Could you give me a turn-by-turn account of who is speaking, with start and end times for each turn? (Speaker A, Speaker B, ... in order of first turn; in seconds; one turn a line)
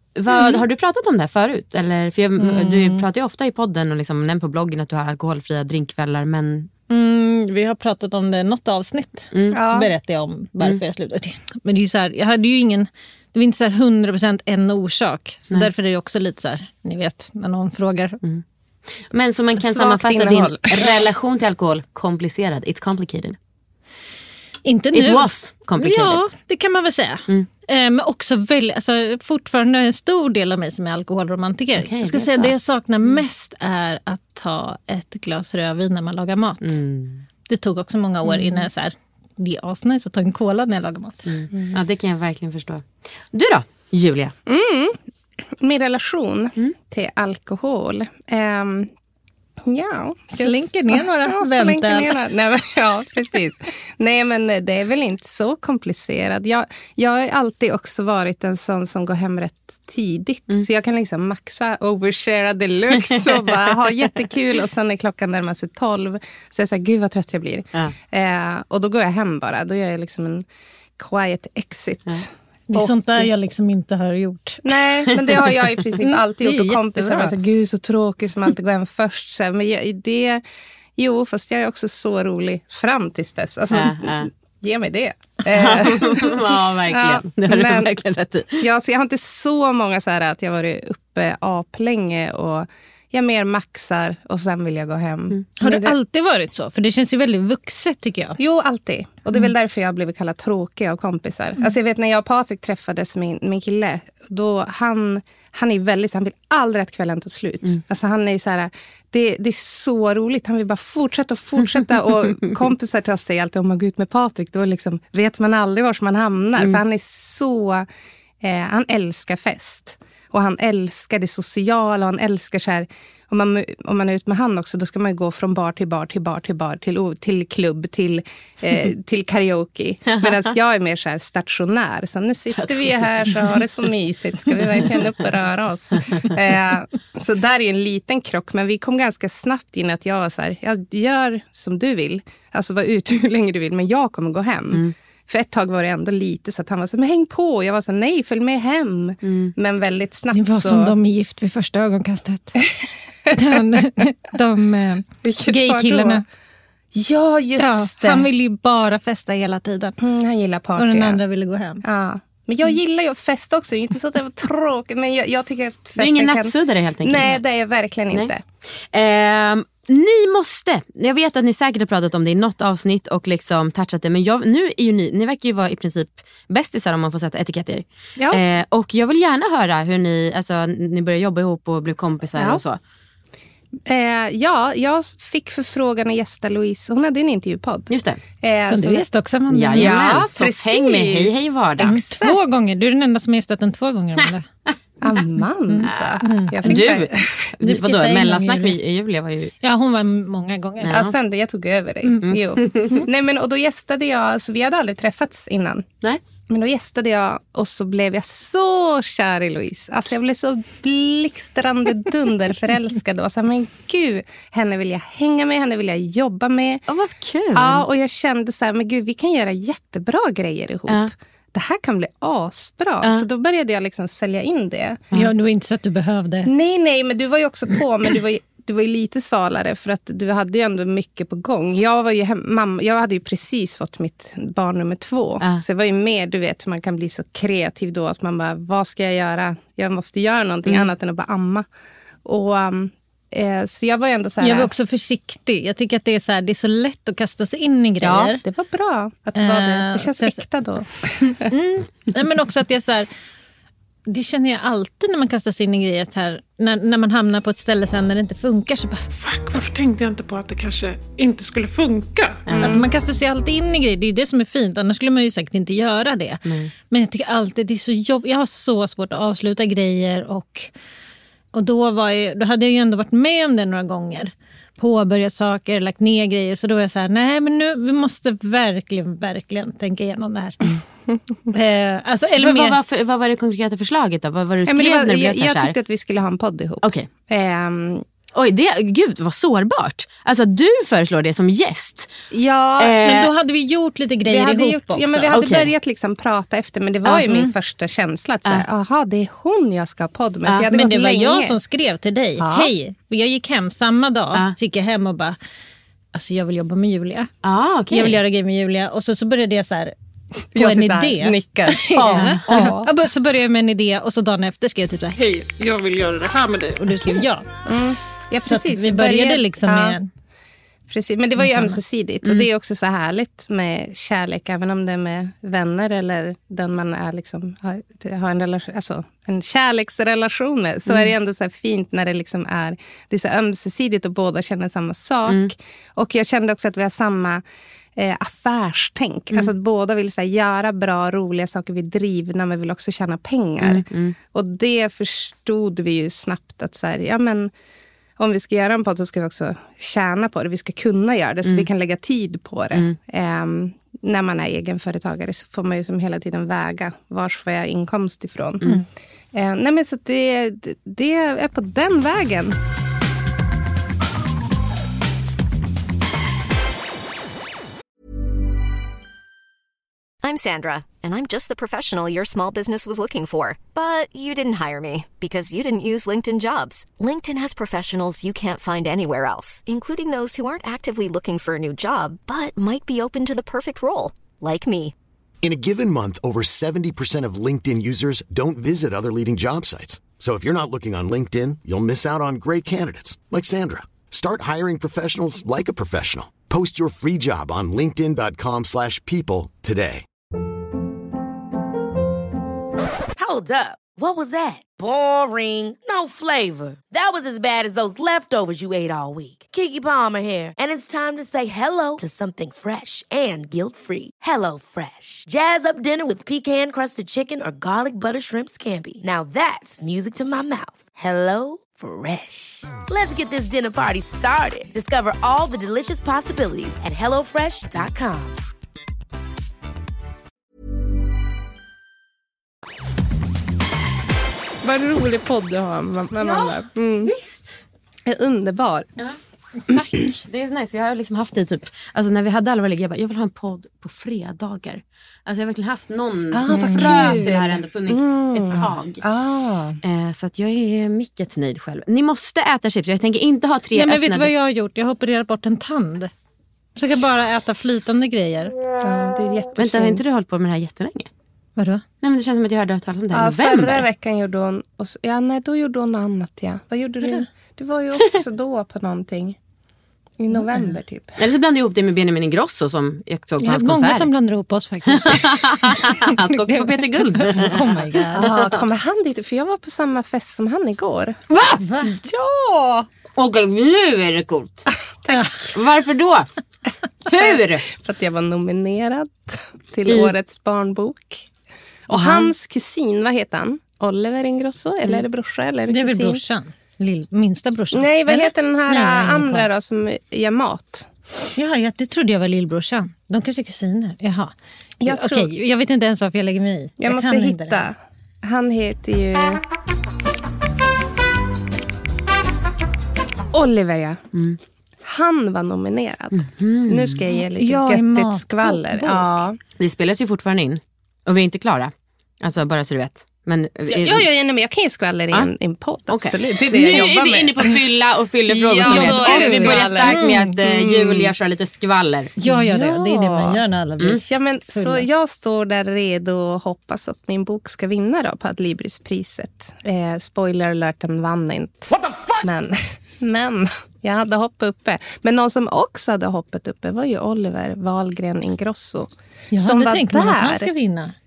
Speaker A: 0.1-6.7
Speaker B: 2.4-3.0
Speaker B: 6.9-18.2
Speaker A: 9.3-9.6
Speaker C: 9.5-9.9
Speaker A: 18.9-23.4
Speaker C: 19.5-20.8
Speaker B: 24.6-36.8
Speaker A: 24.9-26.2
Speaker A: 31.8-32.5
Speaker A: 36.6-37.2
Speaker B: 37.5-41.3
Speaker A: 38.2-38.7
Speaker A: 41.3-44.3
Speaker C: 44.5-45.0
Speaker C: 45.6-48.9
Speaker C: 49.6-70.4
Speaker B: 50.3-52.1
Speaker A: 63.1-63.4
Speaker C: 71.0-73.2
Speaker B: 72.7-74.6
Speaker C: 74.6-80.4
Speaker B: 76.0-77.3
Speaker C: 81.0-87.9
Speaker A: 83.7-84.3
Speaker A: 85.5-88.6
Speaker C: 88.6-95.9
Speaker B: 95.6-98.4
Speaker C: 98.4-117.8
Speaker A: 111.8-112.5
Speaker C: 118.4-150.9
Speaker A: 130.1-130.5
Speaker A: 132.5-133.6
Speaker A: 134.6-135.1
Speaker A: 136.0-136.4
Speaker A: 149.2-149.5
Speaker B: 150.3-152.6
Speaker B: 153.3-156.2
Speaker C: 155.2-156.2
Speaker C: 156.9-158.3
Speaker B: 157.6-160.0
Speaker C: 160.0-161.2
Speaker B: 160.8-161.8
Speaker C: 161.8-168.4
Speaker A: 166.0-167.4
Speaker A: 168.9-182.8
Speaker C: 178.2-178.4
Speaker C: 182.4-182.6
Speaker C: 183.9-189.0
Speaker A: 187.9-188.2
Speaker B: 188.7-190.0
Speaker A: 189.5-192.0
Speaker C: 189.7-192.4
Speaker B: 191.8-194.4
Speaker C: 195.0-197.5
Speaker B: 195.7-196.8
Speaker A: 195.8-199.5
Speaker B: 197.6-198.8
Speaker B: 199.6-201.0
Speaker A: 200.8-201.1
Speaker C: 200.9-205.8
Speaker A: 202.2-203.0
Speaker C: 206.5-216.8
Speaker A: 216.9-217.8
Speaker C: 217.5-225.0
Speaker B: 225.1-226.5
Speaker C: 226.4-241.6
Speaker C: 242.2-244.7
Speaker B: 244.4-248.4
Speaker C: 248.0-251.5
Speaker B: 249.3-250.4
Speaker B: 251.4-253.1
Speaker B: 254.1-259.1
Speaker D: 259.2-262.5
Speaker A: 262.4-262.8
Speaker B: 262.6-270.7
Speaker A: 266.4-266.7
Speaker B: 271.5-280.6
Speaker B: 281.5-282.8
Speaker A: 282.4-285.7
Speaker C: 284.6-288.0
Speaker A: 286.8-287.1
Speaker A: 288.3-292.1
Speaker C: 292.3-293.0
Speaker A: 292.8-293.3
Speaker B: 293.0-295.4
Speaker C: 294.2-301.6
Speaker A: 295.3-295.7
Speaker B: 300.7-305.4
Speaker C: 302.4-302.7
Speaker B: 306.1-307.3
Speaker A: 307.4-308.2
Speaker B: 307.9-309.9
Speaker C: 310.5-312.9
Speaker B: 310.5-315.2
Speaker A: 312.2-312.7
Speaker D: 315.2-317.2
Speaker B: 316.8-317.5
Speaker C: 317.6-320.0
Speaker B: 318.4-320.1
Speaker C: 320.9-337.4
Speaker B: 321.4-321.8
Speaker A: 330.9-331.1
Speaker A: 335.3-335.5
Speaker C: 337.9-347.5
Speaker A: 343.6-344.1
Speaker C: 348.2-358.6
Speaker C: 359.3-362.6
Speaker E: 370.2-384.9
Speaker F: 385.4-400.1
Speaker G: 403.2-428.4
Speaker C: 434.6-437.1
Speaker A: 436.2-437.6
Speaker C: 438.1-438.9
Speaker A: 439.7-449.0
Speaker C: 446.3-449.8
Speaker B: 446.5-447.1
Speaker A: 449.8-454.3
Speaker B: 453.7-456.1
Speaker B: 456.8-458.5
Speaker C: 458.8-460.0
Speaker A: 459.6-461.1
Speaker B: 461.6-461.8
Speaker A: 462.0-463.9
Speaker C: 463.1-469.4
Speaker C: 470.2-471.2
Speaker A: 471.2-474.1
Speaker B: 473.4-478.3
Speaker A: 474.9-478.5
Speaker C: 478.1-481.2
Speaker A: 481.3-481.6
Speaker B: 481.3-482.9
Speaker A: 483.1-484.7
Speaker C: 485.0-485.5
Speaker A: 485.5-486.3
Speaker A: 487.1-487.6
Speaker C: 487.1-491.2
Speaker A: 489.9-490.1
Speaker C: 491.9-496.2
Speaker B: 491.9-492.2
Speaker B: 495.7-499.5
Speaker C: 497.7-500.9
Speaker B: 501.4-507.6
Speaker C: 504.8-505.3
Speaker C: 506.8-509.4
Speaker C: 513.3-514.0
Speaker A: 514.1-514.4
Speaker C: 514.9-519.4
Speaker A: 516.1-517.0
Speaker B: 517.1-519.1
Speaker A: 519.6-524.1
Speaker C: 523.7-527.6
Speaker A: 525.9-532.1
Speaker C: 528.3-531.1
Speaker B: 528.6-530.4
Speaker B: 532.2-534.9
Speaker C: 532.2-533.4
Speaker C: 534.0-550.5
Speaker B: 549.3-550.9